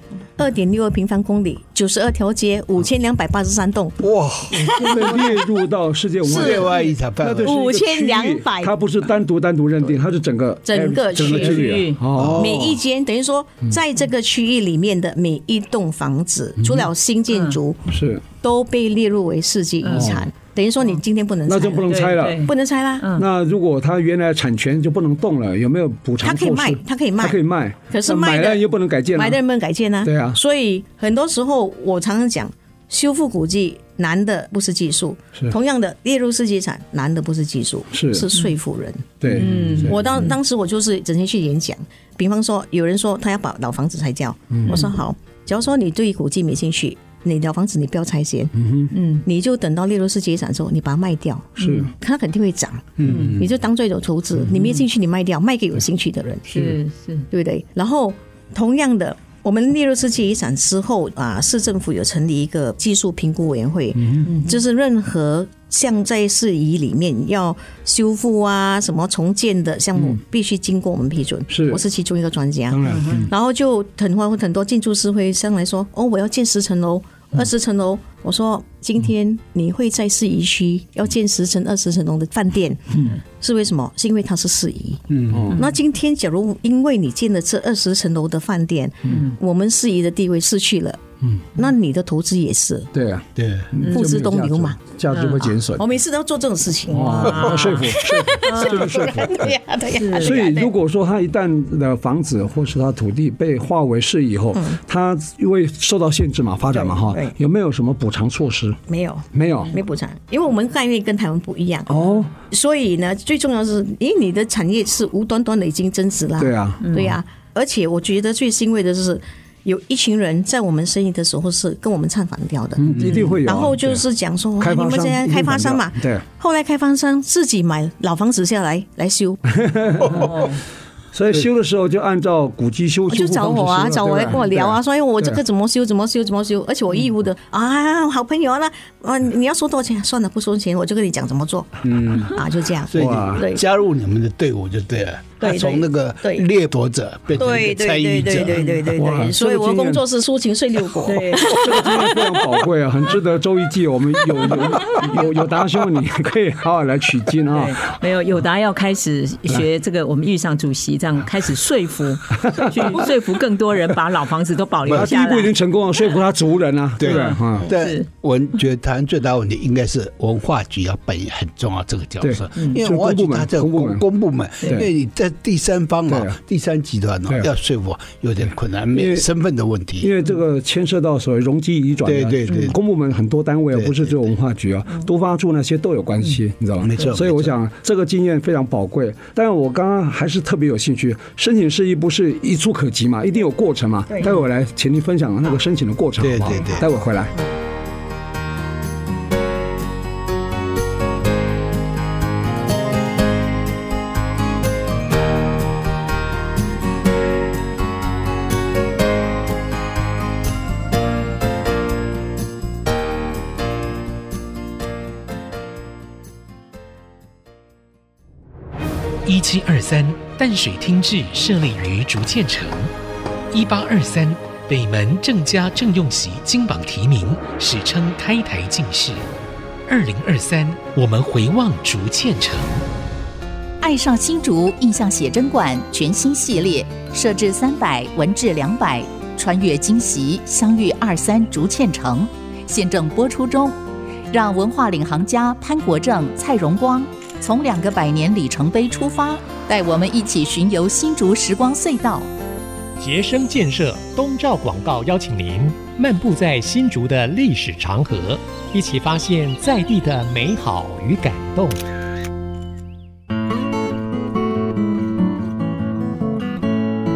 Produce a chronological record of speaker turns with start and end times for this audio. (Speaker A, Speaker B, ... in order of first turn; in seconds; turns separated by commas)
Speaker A: 0.4-4.0, Speaker B: 4.0-5.2, Speaker A: 4.5-5.4, Speaker C: 4.5-12.8, Speaker A: 6.2-6.7, Speaker B: 6.2-7.5, Speaker A: 7.4-8.8, Speaker A: 10.7-11.7, Speaker B: 11.2-12.7, Speaker D: 11.2-12.0, Speaker A: 12.3-17.8, Speaker C: 16.6-16.9, Speaker D: 17.3-17.6, Speaker C: 17.9-18.2, Speaker A: 18.4-23.1, Speaker D: 19.8-20.1, Speaker C: 19.9-20.3, Speaker C: 21.5-22.5, Speaker D: 21.9-23.2, Speaker C: 23.1-29.4, Speaker A: 26.2-48.6, Speaker C: 30.0-30.4, Speaker C: 37.9-38.3, Speaker C: 39.2-40.3, Speaker D: 39.3-40.0, Speaker C: 44.5-44.8, Speaker C: 48.6-48.9, Speaker D: 48.9-49.2, Speaker A: 49.2-56.6, Speaker C: 51.6-51.9, Speaker D: 51.6-51.9, Speaker B: 53.0-53.5, Speaker D: 53.0-53.4, Speaker D: 56.5-57.3, Speaker A: 57.3-85.0, Speaker C: 64.0-64.3, Speaker D: 64.2-64.5, Speaker C: 71.5-71.8, Speaker C: 72.7-73.3, Speaker D: 72.8-73.3, Speaker C: 82.9-83.2, Speaker B: 85.1-85.5, Speaker C: 85.3-85.6, Speaker A: 85.5-91.0, Speaker C: 89.0-89.3, Speaker D: 89.0-89.4, Speaker A: 91.5-92.9, Speaker C: 92.9-95.8, Speaker B: 93.4-93.7, Speaker D: 93.8-94.1, Speaker A: 93.8-94.8, Speaker D: 95.1-95.5, Speaker A: 95.7-100.7, Speaker C: 96.9-99.5, Speaker D: 97.0-98.9, Speaker D: 99.9-100.5, Speaker C: 100.2-108.8, Speaker A: 106.7-107.3, Speaker A: 108.9-129.4, Speaker C: 109.3-109.7, Speaker C: 111.9-112.3, Speaker C: 116.4-117.1, Speaker D: 116.8-117.1, Speaker C: 122.8-124.0, Speaker D: 123.0-123.3, Speaker C: 124.6-126.2, Speaker C: 129.5-130.4, Speaker D: 130.1-130.6, Speaker C: 131.1-135.4, Speaker A: 133.1-143.6, Speaker B: 141.8-142.4, Speaker B: 142.9-148.6, Speaker C: 142.9-143.4, Speaker A: 145.4-146.5, Speaker A: 147.3-152.3, Speaker C: 148.9-150.0, Speaker D: 151.0-151.8, Speaker C: 151.4-157.8, Speaker D: 157.5-165.5, Speaker C: 162.4-163.0, Speaker B: 164.9-165.1, Speaker C: 164.9-167.7, Speaker B: 167.0-180.1, Speaker D: 167.0-168.1, Speaker C: 172.2-174.0, Speaker C: 174.6-174.9, Speaker C: 176.1-176.4, Speaker C: 178.9-179.3, Speaker C: 180.0-197.3, Speaker B: 182.0-182.8, Speaker B: 183.7-184.3, Speaker B: 186.8-187.5, Speaker B: 196.2-196.8, Speaker E: 219.2-222.9, Speaker E: 223.5-229.3, Speaker E: 229.9-232.8, Speaker F: 233.8-243.8, Speaker F: 244.3-252.3, Speaker G: 253.0-261.8